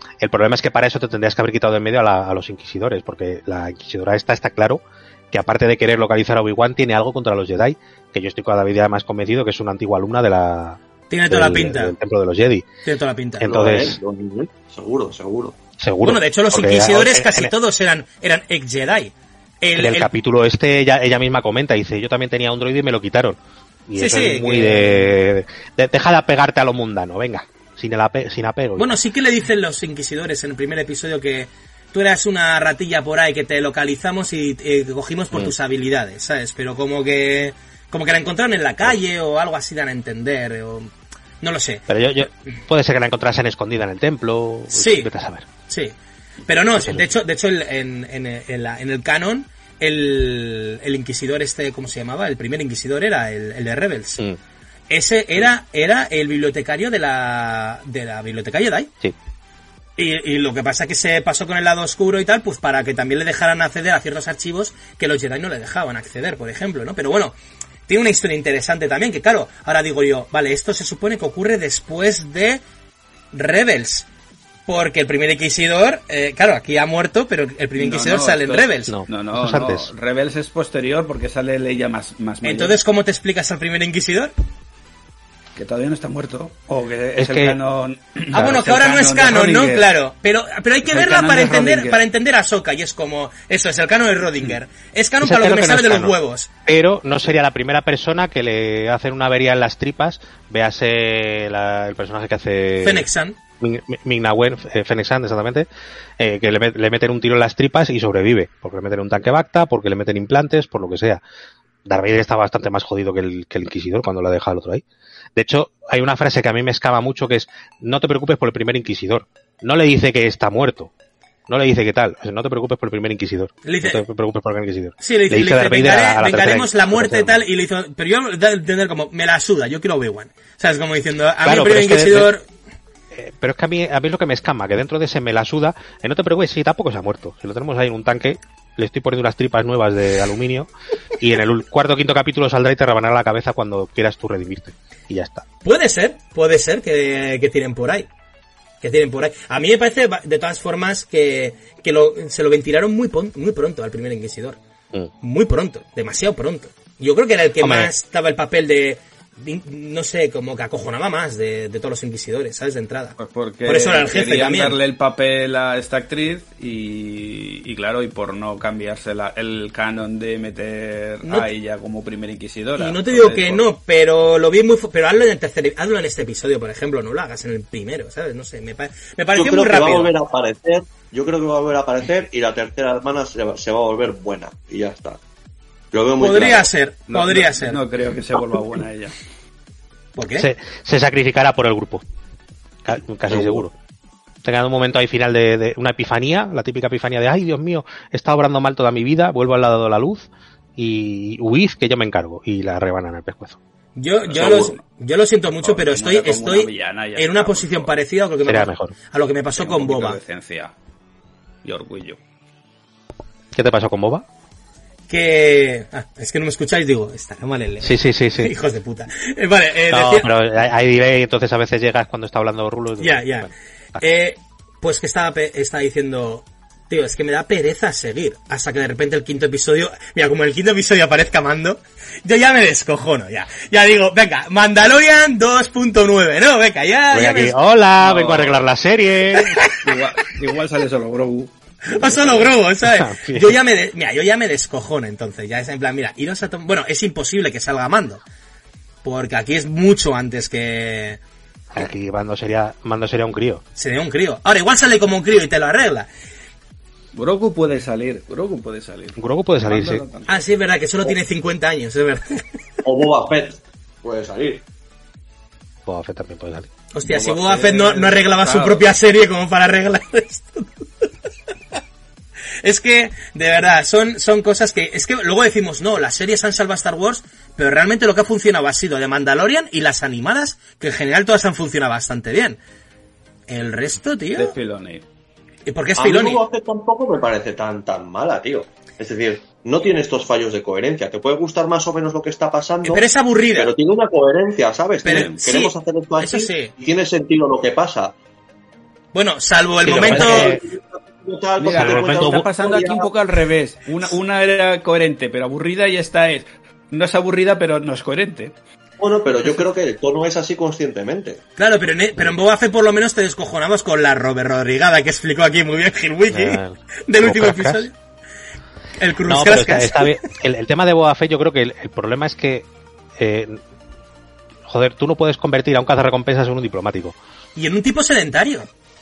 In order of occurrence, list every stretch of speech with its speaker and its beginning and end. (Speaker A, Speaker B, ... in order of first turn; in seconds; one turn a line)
Speaker A: 0.2-12.7
Speaker B: 11.1-11.9
Speaker B: 12.8-13.5
Speaker A: 13.4-14.0
Speaker C: 13.4-15.6
Speaker A: 15.8-17.5
Speaker B: 16.0-20.1
Speaker A: 19.8-28.9
Speaker B: 24.0-25.1
Speaker B: 28.8-41.8
Speaker A: 41.9-45.5
Speaker B: 44.7-45.1
Speaker B: 45.7-46.0
Speaker B: 46.5-54.2
Speaker A: 46.8-47.1
Speaker B: 54.9-58.9
Speaker B: 60.0-67.3
Speaker B: 67.9-72.6
Speaker B: 73.3-74.1
Speaker B: 74.7-78.9
Speaker D: 77.8-82.8
Speaker A: 78.9-79.9
Speaker B: 82.4-84.3
Speaker D: 85.6-89.8
Speaker A: 87.2-87.6
Speaker B: 88.3-96.5
Speaker A: 88.3-88.6
Speaker D: 90.8-92.0
Speaker A: 95.2-96.2
Speaker A: 96.7-103.1
Speaker B: 102.8-103.4
Speaker A: 103.6-105.7
Speaker A: 106.2-111.2
Speaker A: 111.9-114.8
Speaker A: 115.4-120.9
Speaker A: 121.5-127.4
Speaker B: 123.7-124.0
Speaker B: 125.0-132.4
Speaker A: 131.4-132.3
Speaker A: 133.1-145.5
Speaker B: 145.6-148.1
Speaker B: 148.8-154.6
Speaker B: 155.2-164.8
Speaker A: 157.6-157.9
Speaker D: 163.2-173.6
Speaker B: 171.2-171.5
Speaker B: 172.8-180.1
Speaker C: 179.4-185.2
Speaker C: 185.9-186.7
Speaker B: 186.2-187.8
Speaker D: 187.1-189.2
Speaker B: 190.2-190.5
Speaker A: 190.4-192.0
Speaker A: 192.8-193.7
Speaker A: 194.4-203.6
Speaker B: 204.0-210.2
Speaker D: 204.2-204.8
Speaker D: 205.6-207.9
Speaker A: 208.4-208.9
Speaker D: 209.6-210.7
Speaker D: 211.6-212.2
Speaker A: 213.5-214.2
Speaker B: 215.1-220.3
Speaker A: 217.8-218.5
Speaker A: 219.9-224.0
Speaker B: 223.0-237.6
Speaker A: 237.1-239.6
Speaker D: 238.0-238.6
Speaker B: 239.3-239.9
Speaker D: 239.8-242.5
Speaker B: 241.9-248.2
Speaker A: 242.8-243.6
Speaker B: 249.0-251.2
Speaker A: 251.7-253.6
Speaker B: 253.8-256.1
Speaker D: 257.1-260.4
Speaker A: 259.2-260.0
Speaker B: 260.3-262.4
Speaker C: 262.8-264.6
Speaker A: 265.9-266.7
Speaker B: 266.9-270.7
Speaker D: 267.1-268.9
Speaker B: 272.6-282.6
Speaker B: 283.5-284.5
Speaker D: 284.4-285.0
Speaker B: 285.7-286.4
Speaker C: 286.0-293.0
Speaker B: 292.8-293.7
Speaker C: 293.6-298.1
Speaker D: 295.0-295.4
Speaker B: 295.0-296.7
Speaker B: 299.1-300.5
Speaker A: 299.8-300.6
Speaker C: 300.1-303.1
Speaker D: 301.6-308.6
Speaker A: 301.7-302.5
Speaker C: 309.0-311.4
Speaker B: 311.6-317.9
Speaker A: 316.3-317.9
Speaker B: 319.0-320.2
Speaker A: 319.3-322.7
Speaker A: 323.2-323.6
Speaker A: 324.7-327.2
Speaker B: 327.6-328.7